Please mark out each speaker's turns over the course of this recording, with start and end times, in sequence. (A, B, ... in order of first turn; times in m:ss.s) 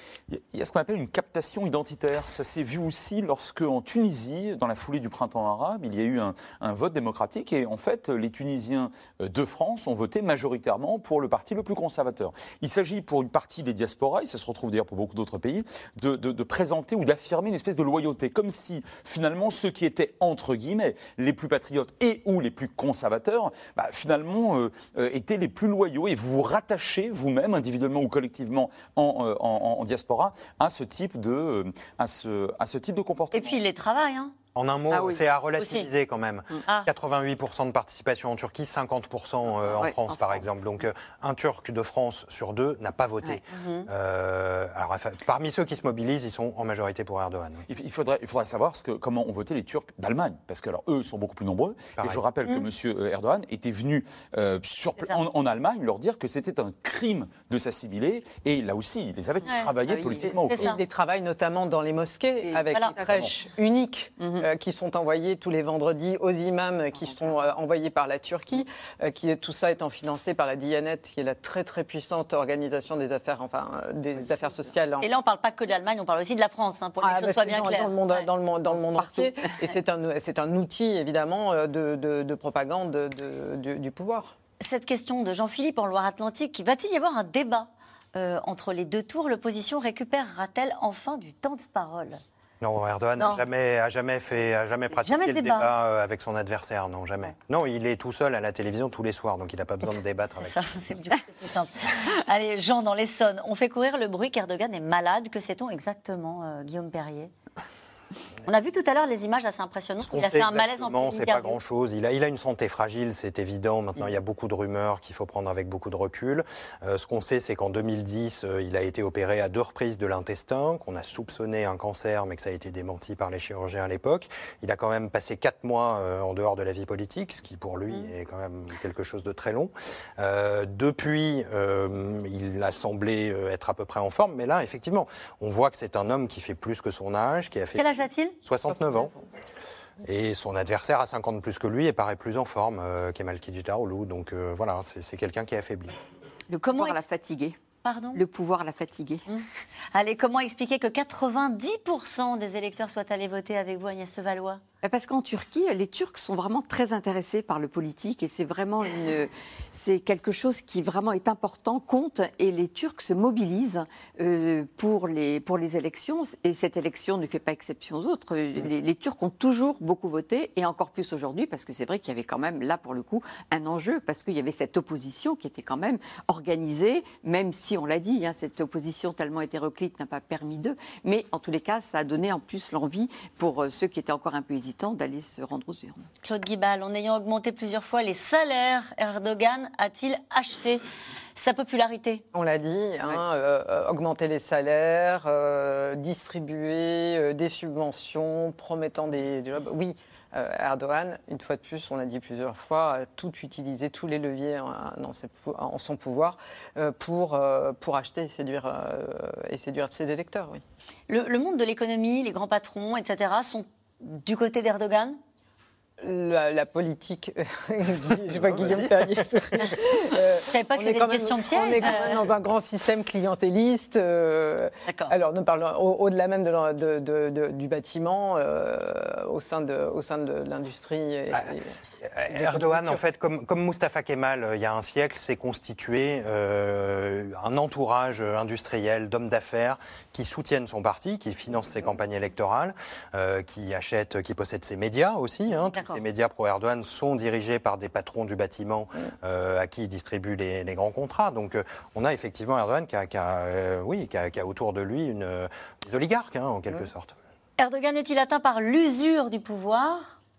0:00.3-0:33.6 A
0:33.3-0:34.3 B
0:34.5-0:47.7 C
0:34.9-0:35.2 D
0:35.6-0:35.9 B
0:39.7-0:40.5 D
0:43.5-0:43.9 B
0:47.7-1:00.8 A
0:59.6-1:00.3 D
1:00.2-1:15.1 E
1:00.5-1:00.8 B
1:02.4-1:03.2 D
1:03.0-1:03.3 A
1:04.2-1:04.5 D
1:07.0-1:07.4 D
1:14.4-1:14.7 D
1:15.0-1:18.3 B
1:17.0-1:24.3 E
1:18.9-1:19.4 D
1:24.6-1:32.2 B
1:32.6-1:40.7 C
1:33.2-1:33.4 B
1:34.9-1:35.7 B
1:40.4-1:47.3 B
1:48.4-1:51.6 B
1:50.0-2:17.8 C
2:17.7-2:18.3 B
2:18.4-2:19.1 C
2:20.0-2:25.9 C
2:26.5-2:27.6 D
2:26.7-2:27.0 B
2:27.8-2:28.2 B
2:28.1-2:29.2 D
2:29.3-2:34.6 B
2:34.8-3:06.0 D
3:06.2-3:10.8 B
3:11.3-3:12.2 B
3:12.3-3:30.6 E
3:31.1-3:35.2 B
3:36.0-3:53.0 E
3:40.4-3:42.2 B
3:44.8-3:45.1 B
3:52.0-4:17.1 C
4:05.7-4:06.0 B
4:17.6-4:20.2 B